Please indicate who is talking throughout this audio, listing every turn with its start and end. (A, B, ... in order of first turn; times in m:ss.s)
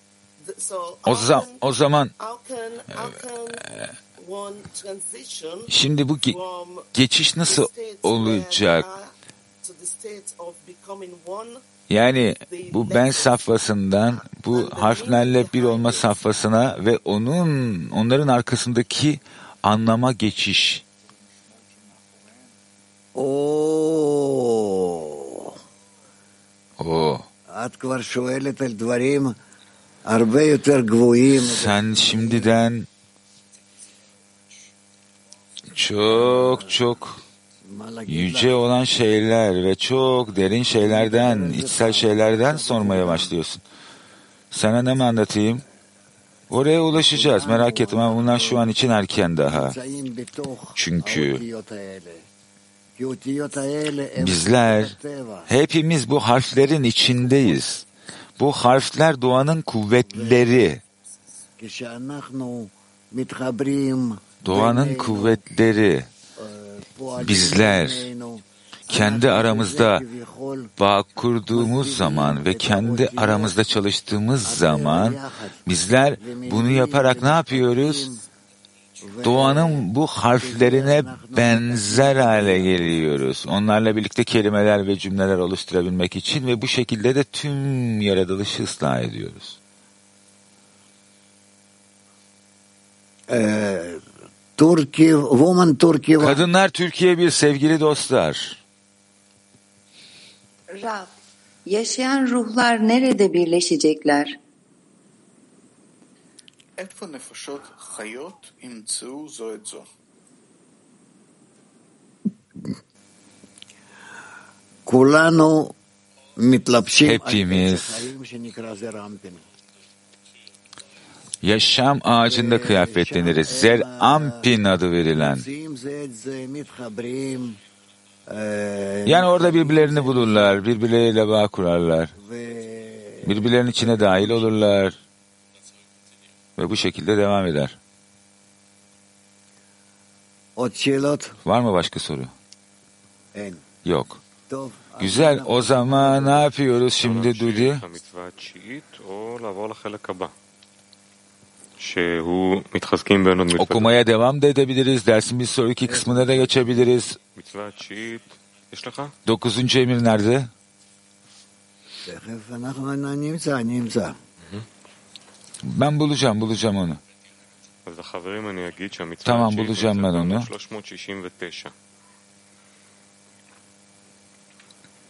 0:00.4-0:06.9 A
0:01.0-0:02.1 B
0:05.7-0:06.4 B
0:06.9-0:08.9 B
0:07.4-0:11.6 A
0:11.9-0:20.8 B
0:12.5-0:16.5 A
0:23.1-0:25.6 C
0:26.8-0:27.2 B
0:27.5-0:29.4 C
0:30.0-0:32.5 C
0:31.4-0:32.9 B
0:35.7-0:37.2 B
0:36.0-0:36.9 C
0:37.6-0:38.6 C
0:38.1-0:43.6 B
0:40.7-0:43.4 C
0:44.5-0:45.6 B
0:46.5-0:49.8 B
0:46.7-0:48.7 C
0:49.4-0:52.2 C
0:50.8-0:51.4 B
0:53.0-0:55.5 C
0:54.2-0:54.9 B
0:55.5-0:57.8 B
0:57.2-0:57.6 C
0:58.4-1:00.8 B
1:00.1-1:00.8 C
1:01.6-1:05.4 C
1:04.4-1:06.1 B
1:06.4-1:10.7 C
1:07.2-1:08.1 B
1:08.9-1:10.0 B
1:10.8-1:18.1 B
1:11.5-1:13.6 C
1:14.4-1:15.6 C
1:16.1-1:18.2 C
1:19.0-1:23.3 C
1:19.2-1:29.6 B
1:33.3-1:34.0 C
1:34.6-1:36.4 C
1:36.2-1:38.6 B
1:40.7-1:44.4 D
1:46.8-1:49.9 E
1:54.8-1:55.7 C
1:56.4-1:59.4 C
1:57.0-1:58.1 B
2:01.4-2:05.4 B
2:02.2-2:04.5 C
2:05.1-2:07.6 C
2:08.3-2:10.6 C
2:09.0-2:12.1 B
2:12.2-2:14.6 C
2:13.2-2:15.0 B
2:16.6-2:17.8 B
2:20.6-2:21.3 C
2:21.4-2:22.3 B
2:23.3-2:23.6 C
2:23.8-2:24.2 B
2:24.5-2:26.5 C
2:25.0-2:27.8 B
2:33.5-2:37.2 B
2:35.8-2:36.8 C
2:39.2-2:40.5 B
2:42.0-2:44.2 C
2:45.7-2:47.0 B
2:49.2-2:50.5 B